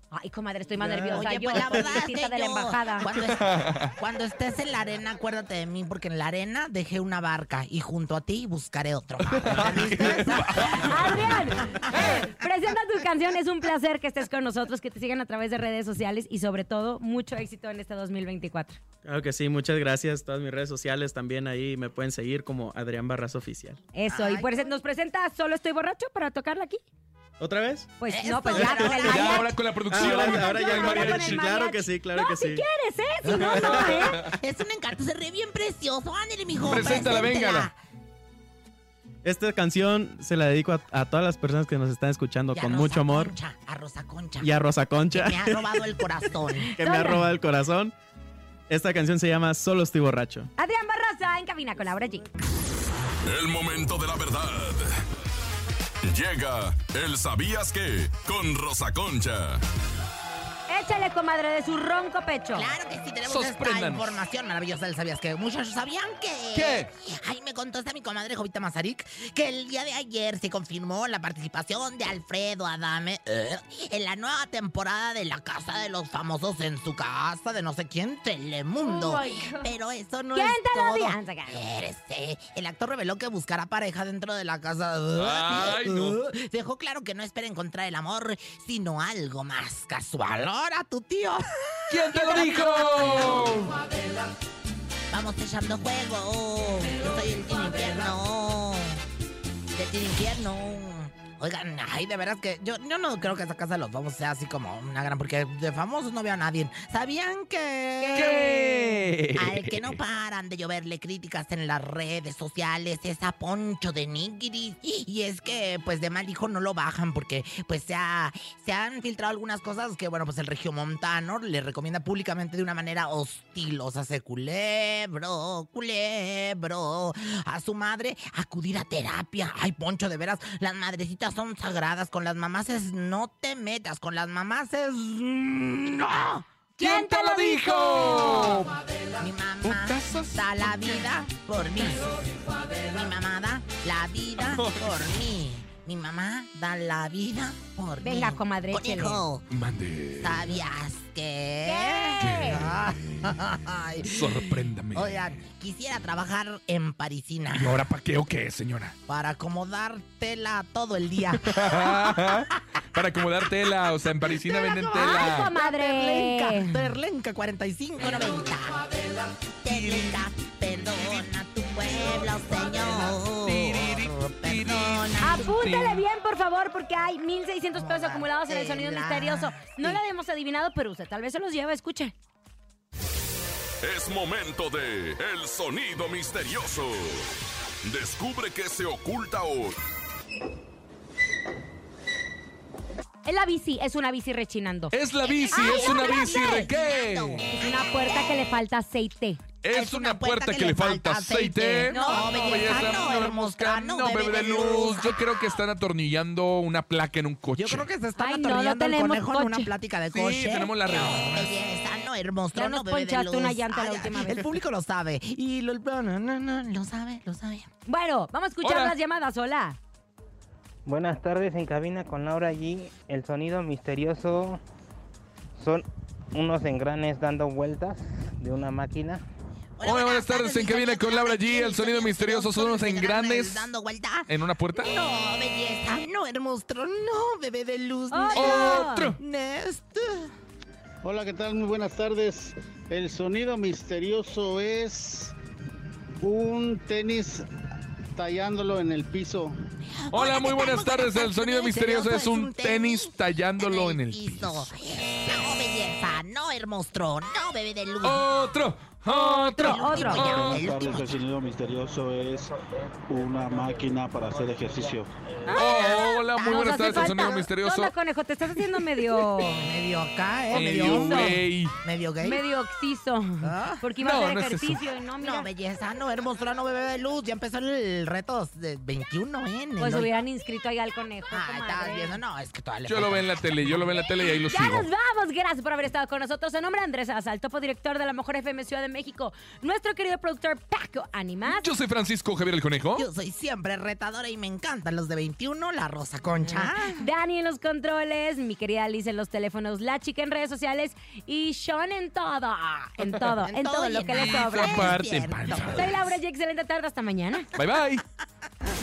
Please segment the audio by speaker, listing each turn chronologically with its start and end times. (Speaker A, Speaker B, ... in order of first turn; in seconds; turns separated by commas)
Speaker A: 0.1-3.1, Speaker B: 0.8-1.6, Speaker C: 1.1-12.1, Speaker D: 3.1-3.9, Speaker D: 9.2-12.2, Speaker A: 10.7-18.8, Speaker B: 19.0-23.8, Speaker A: 23.9-26.8, Speaker C: 24.1-24.7, Speaker B: 27.4-28.0, Speaker A: 28.0-34.3, Speaker C: 28.0-29.6, Speaker B: 28.6-28.9, Speaker D: 28.9-31.5, Speaker B: 29.8-32.7, Speaker C: 33.2-37.7, Speaker D: 33.3-34.1, Speaker D: 36.6-37.7, Speaker B: 39.2-43.3, Speaker C: 42.5-44.6, Speaker B: 44.4-46.0, Speaker C: 45.1-46.7, Speaker A: 46.6-47.3, Speaker B: 46.7-47.9, Speaker B: 48.7-50.5, Speaker A: 50.6-52.3, Speaker B: 51.7-52.3, Speaker E: 53.3-55.0, Speaker E: 56.0-59.6, Speaker A: 60.7-62.7, Speaker C: 62.5-93.5, Speaker D: 63.3-64.2, Speaker D: 66.5-66.9, Speaker A: 78.8-79.7, Speaker A: 80.3-81.6, Speaker D: 85.2-86.2, Speaker D: 91.9-93.8, Speaker C: 95.1-99.0, Speaker C: 99.8-108.5, Speaker A: 108.0-109.1, Speaker D: 108.2-110.0, Speaker C: 109.3-136.4, Speaker A: 136.8-138.7, Speaker D: 136.8-138.7, Speaker C: 139.2-142.1, Speaker D: 139.6-140.5, Speaker C: 142.8-149.4, Speaker D: 144.5-145.0, Speaker A: 148.0-149.2, Speaker D: 149.5-150.5, Speaker C: 150.2-157.9, Speaker A: 151.6-152.6, Speaker D: 152.2-152.8, Speaker D: 154.0-155.3, Speaker D: 157.6-159.0, Speaker C: 159.1-162.6, Speaker D: 161.4-165.5, Speaker C: 163.4-168.9, Speaker A: 164.9-166.9, Speaker C: 169.6-175.6, Speaker D: 173.4-176.0, Speaker A: 175.2-182.1, Speaker C: 177.7-180.0, Speaker E: 183.8-187.3, Speaker E: 187.8-189.8, Speaker A: 193.3-194.9, Speaker D: 194.9-197.4, Speaker C: 195.2-198.4, Speaker A: 195.5-196.4, Speaker A: 197.5-199.4, Speaker D: 199.6-207.9, Speaker C: 199.7-205.6, Speaker A: 201.9-202.9, Speaker C: 207.6-217.7, Speaker A: 208.2-209.7, Speaker D: 210.1-211.5, Speaker A: 212.5-214.5, Speaker A: 217.9-219.8, Speaker D: 218.6-218.9, Speaker F: 220.9-224.6, Speaker F: 225.6-229.2, Speaker C: 229.8-240.3, Speaker D: 229.8-233.7, Speaker D: 234.3-235.0, Speaker A: 238.1-239.1, Speaker D: 238.3-239.2, Speaker G: 241.0-245.3, Speaker G: 246.2-247.5, Speaker G: 248.2-249.6, Speaker C: 249.9-258.4, Speaker D: 250.1-254.7, Speaker D: 258.0-260.8, Speaker A: 259.1-260.5, Speaker C: 259.6-261.2, Speaker G: 260.5-262.5, Speaker G: 263.1-265.1, Speaker D: 265.5-267.9, Speaker A: 265.5-269.5, Speaker C: 265.5-267.5, Speaker C: 269.4-272.4, Speaker D: 270.5-271.8, Speaker A: 270.6-271.4, Speaker A: 272.2-275.5, Speaker C: 273.4-273.9, Speaker D: 274.0-274.8, Speaker C: 275.2-280.1, Speaker A: 279.8-282.2, Speaker C: 281.3-283.4, Speaker D: 282.9-284.9, Speaker A: 284.5-291.7, Speaker D: 291.5-293.1, Speaker C: 293.0-297.1, Speaker A: 296.5-304.9, Speaker C: 303.4-306.0, Speaker D: 304.1-305.9, Speaker A: 305.7-307.5, Speaker D: 307.6-308.0